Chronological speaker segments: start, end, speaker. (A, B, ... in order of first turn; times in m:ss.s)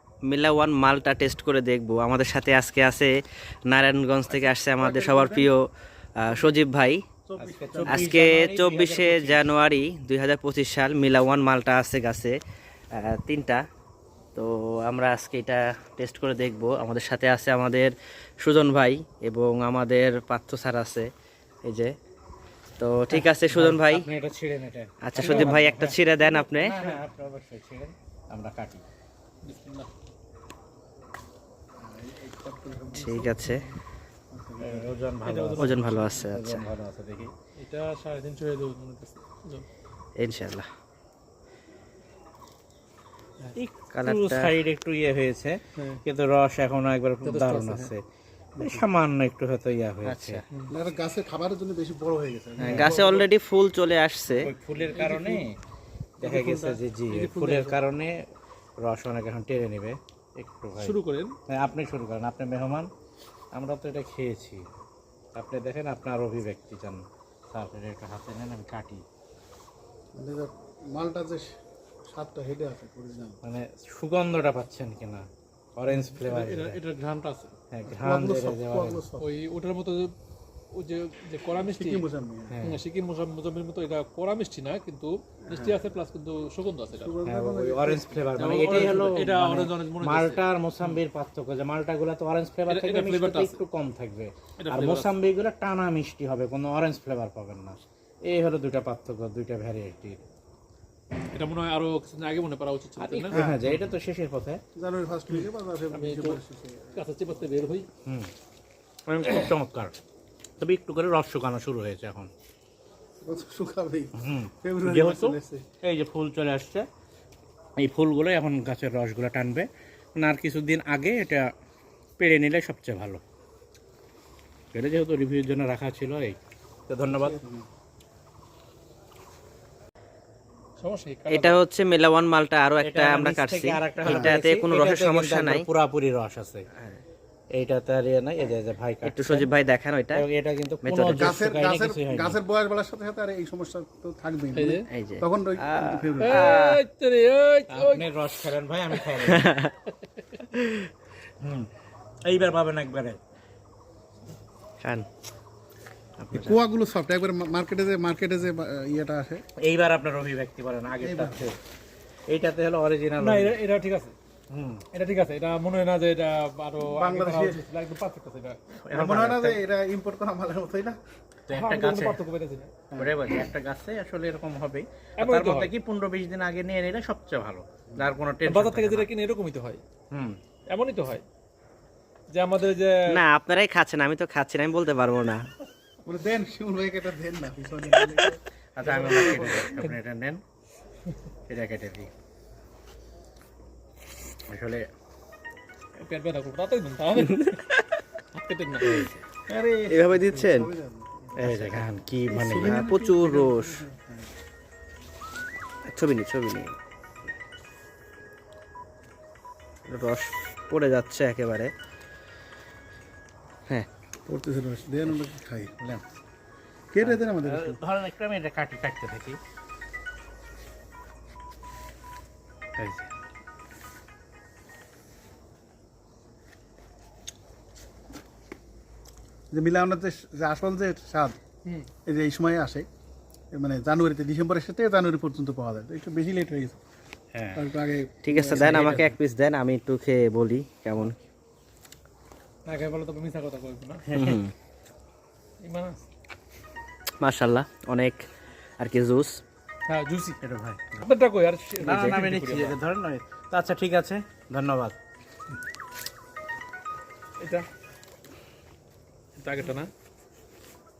0:00.3-0:03.1 A
0:03.7-0:05.6 A
0:04.3-0:05.5 B
0:06.2-0:07.0 A
0:07.2-0:08.1 B
0:07.4-0:09.5 C
0:07.8-0:12.3 A
0:13.0-0:13.6 A
0:14.4-0:21.1 A
0:21.7-0:21.9 A
0:22.8-0:24.1 A
0:23.1-0:26.0 C
0:25.0-0:26.8 A
0:25.2-0:25.7 D
0:26.5-0:28.8 C
0:29.4-0:29.9 D
0:31.8-0:33.6 B
0:32.9-0:33.6 A
0:34.3-0:35.0 B
0:34.6-0:37.3 C
0:35.2-0:36.2 D
0:35.6-0:36.6 A
0:37.6-0:39.6 D
0:40.2-0:40.7 A
0:43.6-0:48.0 C
0:43.9-0:44.5 A
0:47.2-0:47.9 D
0:48.6-0:48.8 B
0:48.6-0:50.4 C
0:50.0-0:50.4 A
0:50.7-0:53.0 B
0:52.6-0:52.9 C
0:52.6-0:53.3 D
0:52.7-0:54.5 A
0:54.3-0:55.5 C
0:54.9-0:55.4 D
0:56.2-0:58.2 C
0:56.2-0:57.8 D
0:58.8-1:01.0 C
1:00.8-1:01.3 D
1:01.5-1:02.9 C
1:03.5-1:04.6 C
1:05.3-1:09.0 C
1:10.1-1:11.6 B
1:12.1-1:13.4 B
1:13.4-1:16.8 C
1:15.9-1:17.5 D
1:17.7-1:19.0 C
1:17.9-1:19.3 B
1:19.2-1:20.1 D
1:20.7-1:22.0 D
1:21.6-1:22.6 B
1:22.5-1:22.8 C
1:22.6-1:27.1 D
1:25.5-1:25.8 B
1:26.9-1:29.2 B
1:27.2-1:40.2 C
1:28.4-1:31.0 D
1:32.7-1:33.6 D
1:34.6-1:35.1 D
1:41.3-1:43.4 D
1:43.0-1:44.6 C
1:43.3-1:43.7 B
1:44.7-1:47.5 B
1:45.3-1:46.4 D
1:46.9-1:47.9 D
1:48.0-1:48.3 C
1:49.1-1:49.9 C
1:50.6-1:52.3 C
1:53.2-1:55.6 B
1:54.2-1:56.9 C
1:57.8-2:01.5 C
2:02.2-2:03.2 C
2:04.7-2:06.4 C
2:06.9-2:07.4 C
2:07.1-2:07.6 B
2:10.8-2:11.6 D
2:11.3-2:15.6 A
2:12.8-2:16.6 C
2:14.0-2:14.4 B
2:16.8-2:17.0 A
2:17.5-2:19.5 C
2:19.0-2:20.2 A
2:20.1-2:22.4 C
2:20.8-2:21.4 A
2:21.2-2:26.6 B
2:24.5-2:24.9 D
2:24.9-2:26.8 A
2:26.2-2:28.1 D
2:27.7-2:29.5 C
2:29.2-2:29.7 A
2:30.5-2:30.9 A
2:31.4-2:31.7 C
2:32.2-2:33.2 C
2:34.8-2:35.1 A
2:36.2-2:36.6 A
2:36.3-2:39.4 B
2:39.6-2:41.6 C
2:41.0-2:41.5 B
2:42.3-2:43.6 C
2:43.2-2:44.1 D
2:44.5-2:44.8 C
2:44.9-2:48.8 D
2:46.8-2:47.6 B
2:48.8-2:49.6 C
2:48.9-2:51.0 B
2:51.5-2:52.2 C
2:51.5-2:52.7 D
2:52.9-2:53.2 B
2:53.0-2:59.1 C
2:55.2-2:55.7 D
2:58.4-2:59.8 D
3:00.1-3:00.4 C
3:00.7-3:01.2 D
3:02.3-3:03.0 D
3:03.1-3:05.4 A
3:06.0-3:09.7 B
3:08.8-3:10.4 C
3:08.8-3:10.0 D
3:11.5-3:12.1 C
3:14.5-3:14.9 C
3:16.0-3:17.6 D
3:17.2-3:18.0 A
3:18.3-3:19.2 D
3:19.5-3:24.3 B
3:19.9-3:20.7 A
3:21.4-3:22.8 C
3:22.6-3:23.8 A
3:25.9-3:26.8 A
3:29.9-3:31.7 A
3:34.3-3:35.7 B
3:36.9-3:37.8 B
3:37.0-3:39.4 C
3:42.8-3:43.1 C
3:49.5-3:51.4 B
3:52.0-3:52.9 B
3:53.5-3:56.8 B
3:57.3-3:57.6 C
3:57.5-3:59.0 B
3:58.2-4:01.2 A
3:58.5-3:59.0 D
4:02.6-4:04.0 D
4:04.0-4:04.4 C
4:04.1-4:04.5 A
4:05.6-4:06.0 D
4:07.2-4:08.2 A
4:08.8-4:09.4 A
4:09.9-4:10.4 D
4:10.4-4:11.1 C
4:10.9-4:12.8 D
4:11.8-4:14.9 C
4:17.4-4:17.6 D
4:19.4-4:19.9 D